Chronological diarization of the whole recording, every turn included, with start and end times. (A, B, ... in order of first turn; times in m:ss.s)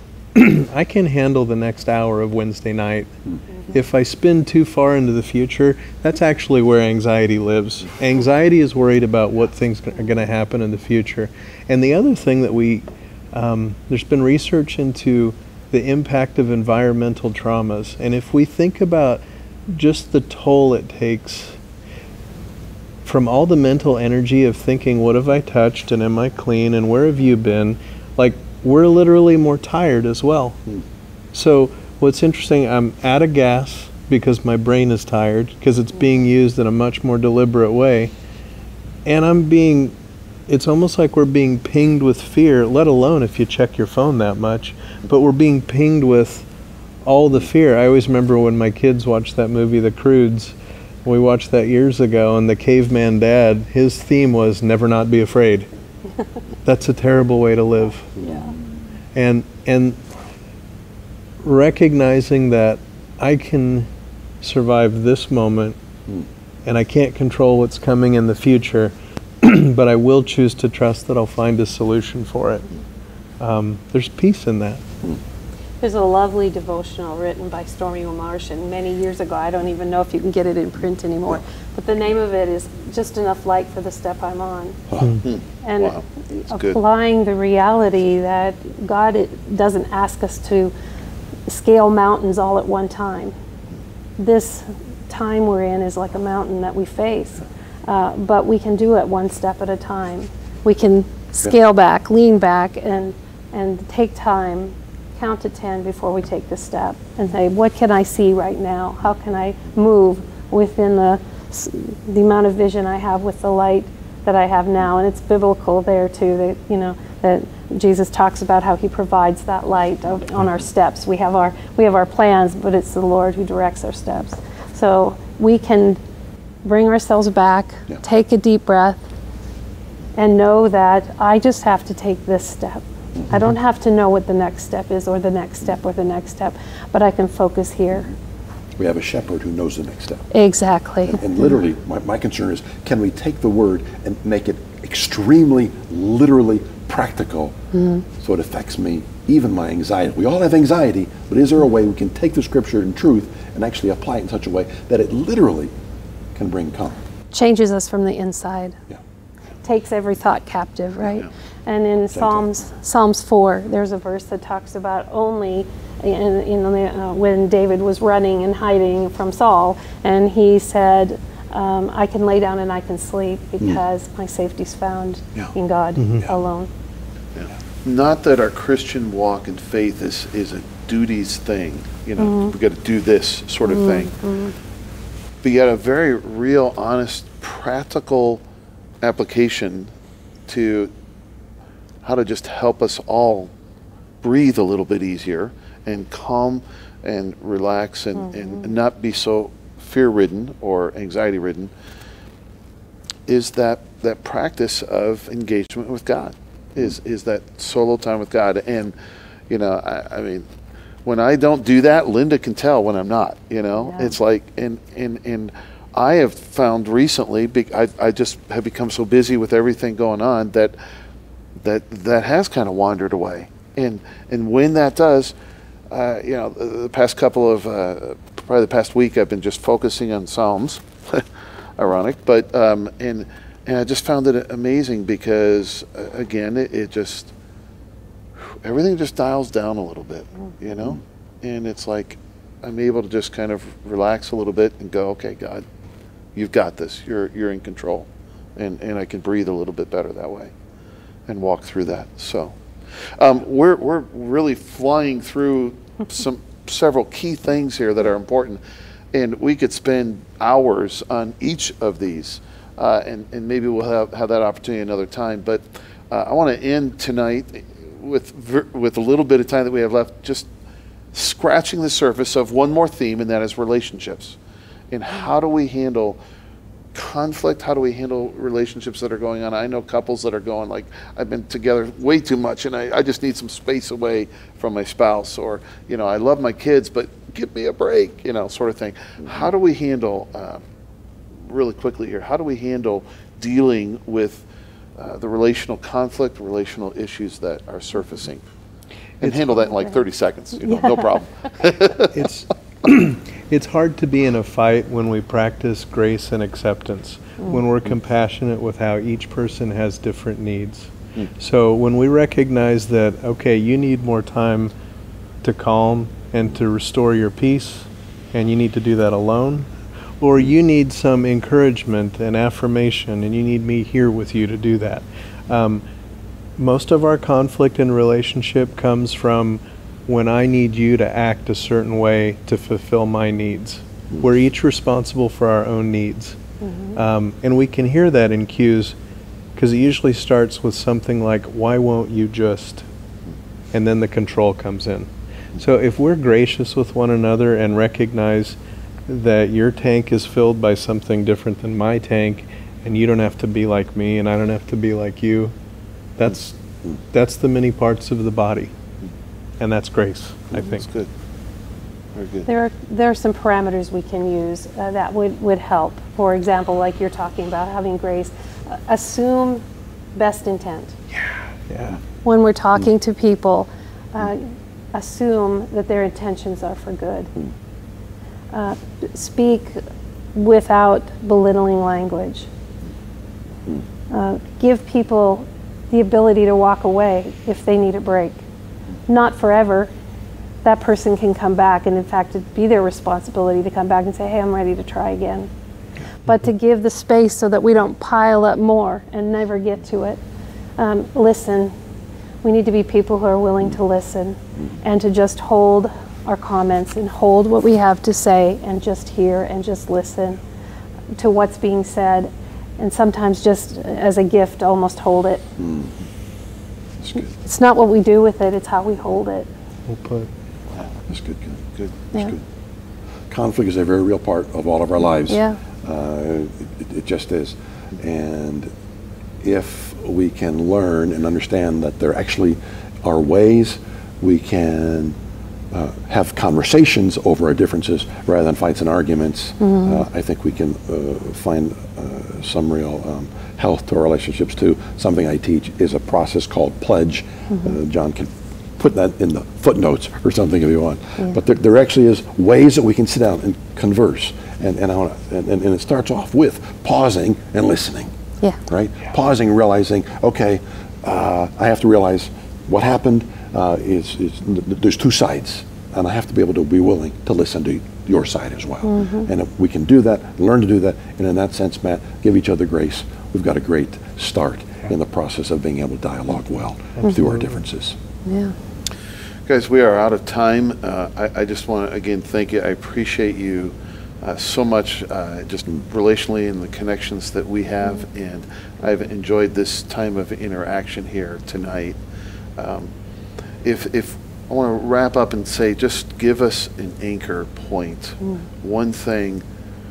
0:00.3-0:03.1 A
0:03.7-0:21.6 A
0:23.0-0:30.6 A
0:31.3-0:38.1 A
0:39.0-0:39.9 A
0:40.5-0:46.5 A
0:47.0-0:55.7 A
0:56.6-0:58.2 A
0:58.2-0:58.6 B
0:59.2-1:00.0 A
1:01.4-1:03.9 A
1:04.4-1:05.8 A
1:06.6-1:12.7 A
1:13.4-1:14.8 A
1:15.8-1:24.8 C
1:25.2-1:26.8 D
1:25.6-1:30.7 C
1:31.5-1:33.3 C
1:34.2-2:06.0 C
2:06.6-2:09.0 C
2:10.2-2:18.1 C
2:18.8-2:20.3 B
2:20.3-2:21.2 C
2:21.1-2:27.6 B
2:27.7-2:28.0 C
2:28.1-2:35.7 B
2:36.4-2:37.0 B
2:37.3-2:38.8 C
2:39.6-2:56.7 C
2:42.2-2:42.5 B
2:56.0-2:56.3 A
2:57.4-3:04.1 D
3:02.2-3:02.5 C
3:03.7-3:04.5 C
3:05.4-3:08.4 D
3:09.0-3:09.9 D
3:10.5-3:10.9 D
3:12.0-3:13.5 D
3:14.2-3:21.7 D
3:23.3-3:29.0 D
3:29.5-3:30.5 D
3:31.0-3:40.8 D
3:41.6-3:45.4 D
3:45.9-3:51.3 D
3:51.8-3:57.3 D
3:58.4-4:05.6 D
4:06.4-4:10.5 D
4:11.3-4:12.6 D
4:13.2-4:18.6 D
4:19.1-4:30.5 D
4:31.1-4:34.4 D
4:34.9-4:36.2 D
4:36.9-4:50.6 D
4:51.4-4:54.5 D
4:55.0-4:58.4 D
4:59.2-5:02.2 D
4:59.2-4:59.5 A
5:02.1-5:14.7 A
5:15.4-5:25.8 A
5:26.6-5:36.4 A
5:36.6-5:36.9 C
5:36.9-5:38.9 A
5:39.6-5:42.8 A
5:43.7-5:48.6 A
5:49.1-5:55.5 A
5:56.2-5:58.7 A
5:59.6-6:00.9 A
6:00.5-6:01.1 D
6:02.2-6:02.5 D
6:02.5-6:09.6 C
6:10.2-6:11.0 C
6:11.7-6:12.0 A
6:12.2-6:17.3 C
6:18.5-6:19.8 C
6:20.4-6:22.5 C
6:24.1-6:28.4 C
6:29.1-6:29.9 C
6:30.6-6:35.5 C
6:36.3-6:40.2 C
6:40.8-6:41.7 C
6:42.4-6:50.4 C
6:51.2-6:55.4 C
6:55.6-6:55.9 B
6:57.0-6:57.3 B
6:57.4-6:59.5 C
6:59.9-7:00.3 A
7:01.1-7:02.4 B
7:03.3-7:08.7 B
7:05.3-7:05.6 C
7:09.4-7:15.2 B
7:15.7-7:38.1 B
7:19.6-7:20.0 C
7:27.5-7:27.8 C
7:38.7-7:58.0 B
7:48.9-7:49.3 C
7:57.0-7:57.4 A
7:58.3-7:58.6 C
7:59.5-8:12.0 D
8:12.6-8:12.9 D
8:13.6-8:19.4 D